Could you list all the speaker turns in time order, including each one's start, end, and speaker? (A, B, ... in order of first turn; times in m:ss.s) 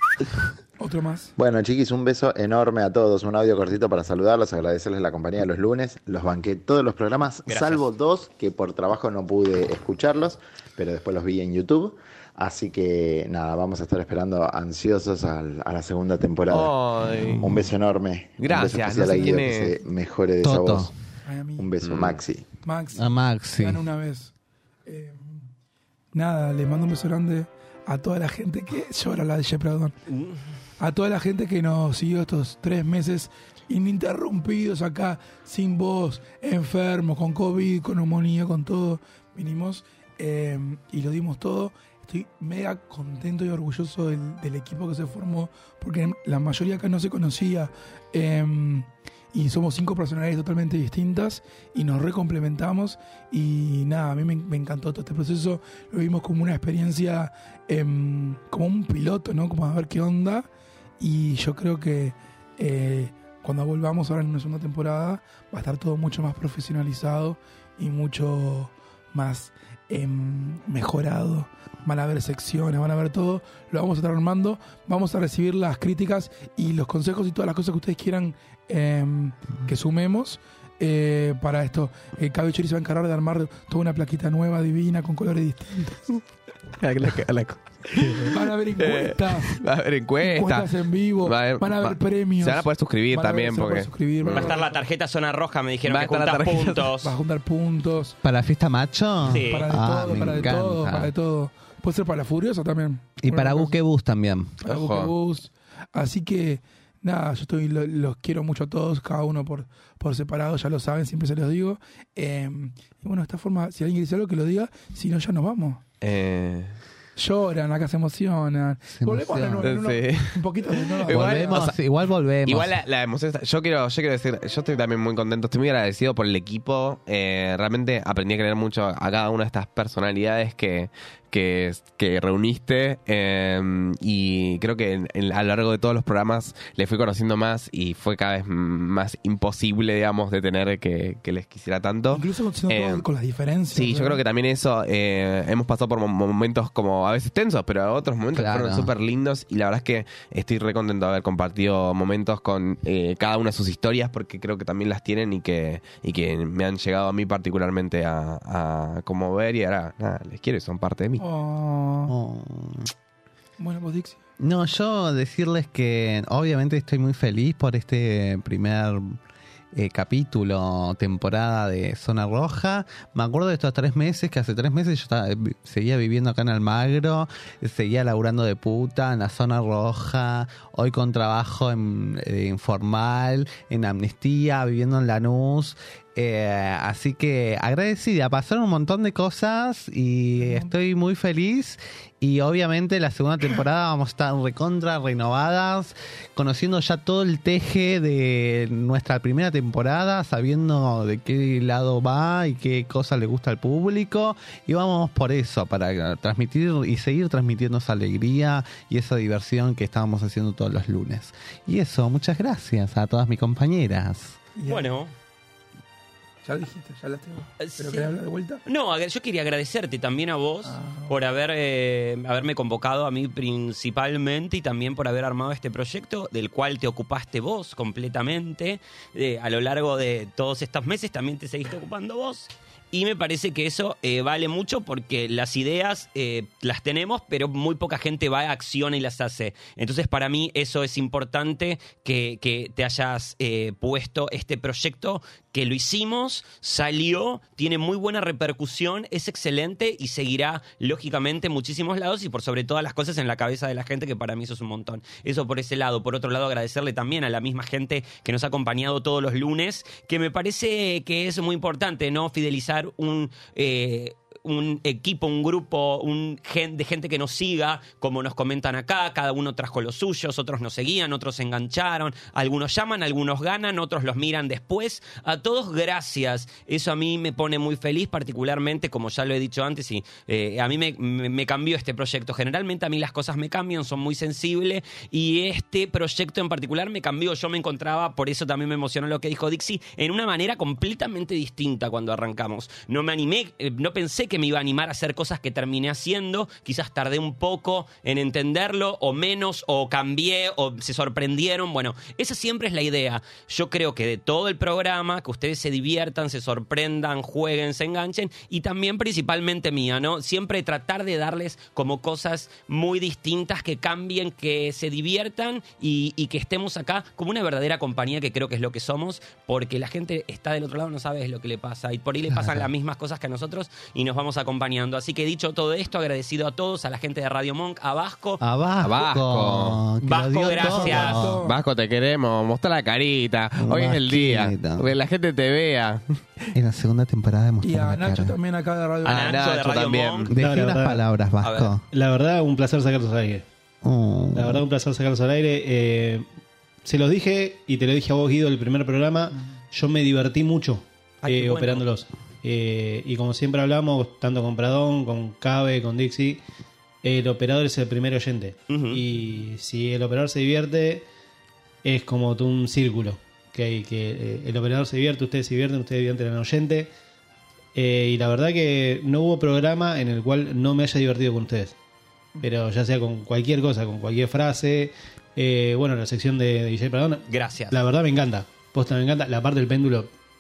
0:00.8-0:01.3 A
0:01.4-0:16.7 B
0:07.5-0:07.9 C
0:16.5-0:17.5 D
0:17.2-0:17.6 E
0:17.4-0:20.9 B
0:18.4-0:19.8 D
0:20.4-0:20.9 E
0:21.3-0:21.7 A
0:21.6-0:22.5 B
0:21.8-0:22.2 D
0:22.6-0:24.3 A
0:23.0-0:23.8 E
0:24.9-0:25.5 A
0:26.1-0:30.0 A
0:30.1-0:30.4 C
0:30.8-1:00.5 A
1:01.0-1:26.0 A
1:26.8-1:30.7 D
1:28.3-1:29.5 A
1:30.2-1:34.7 A
1:31.2-1:34.5 D
1:34.3-1:37.1 C
1:35.9-1:36.9 D
1:37.0-1:38.2 A
1:38.2-1:41.1 E
1:39.2-1:39.7 C
1:39.4-1:43.7 A
1:43.2-1:44.6 E
1:44.6-1:55.8 A
1:44.6-1:45.1 D
1:56.0-1:56.7 D
1:57.2-2:01.7 A
1:58.9-1:59.7 E
1:59.6-2:01.8 D
2:01.1-2:02.8 E
2:02.4-2:23.1 D
2:22.1-2:24.2 A
2:23.7-2:41.2 D
2:28.4-2:28.9 E
2:41.2-2:42.1 A
2:42.1-2:42.9 E
2:43.6-2:44.2 A
2:44.4-2:49.2 E
2:49.7-3:34.4 E
3:10.4-3:10.7 A
3:34.6-3:34.9 A
3:34.7-3:35.1 C
3:36.4-3:38.6 A
3:37.6-3:38.1 C
3:38.7-5:28.4 C
3:40.6-3:41.1 A
5:28.4-5:31.4 E
5:28.8-5:29.8 D
5:30.0-5:31.3 C
5:30.6-5:31.6 A
5:31.4-5:36.0 D
5:33.6-5:34.9 E
5:36.5-5:38.4 E
5:37.6-5:39.5 A
5:39.0-5:40.3 C
5:39.1-5:40.3 D
5:40.3-5:41.8 E
5:40.3-5:41.0 F
5:41.4-5:41.7 C
5:41.9-5:43.4 F
5:43.8-5:44.6 E
5:44.3-5:46.3 F
5:46.8-5:56.4 F
5:51.2-5:51.9 C
5:57.0-6:01.1 F
5:58.7-5:59.0 C
6:01.8-6:06.9 F
6:07.8-6:11.8 F
6:12.4-6:20.1 F
6:17.3-6:17.8 C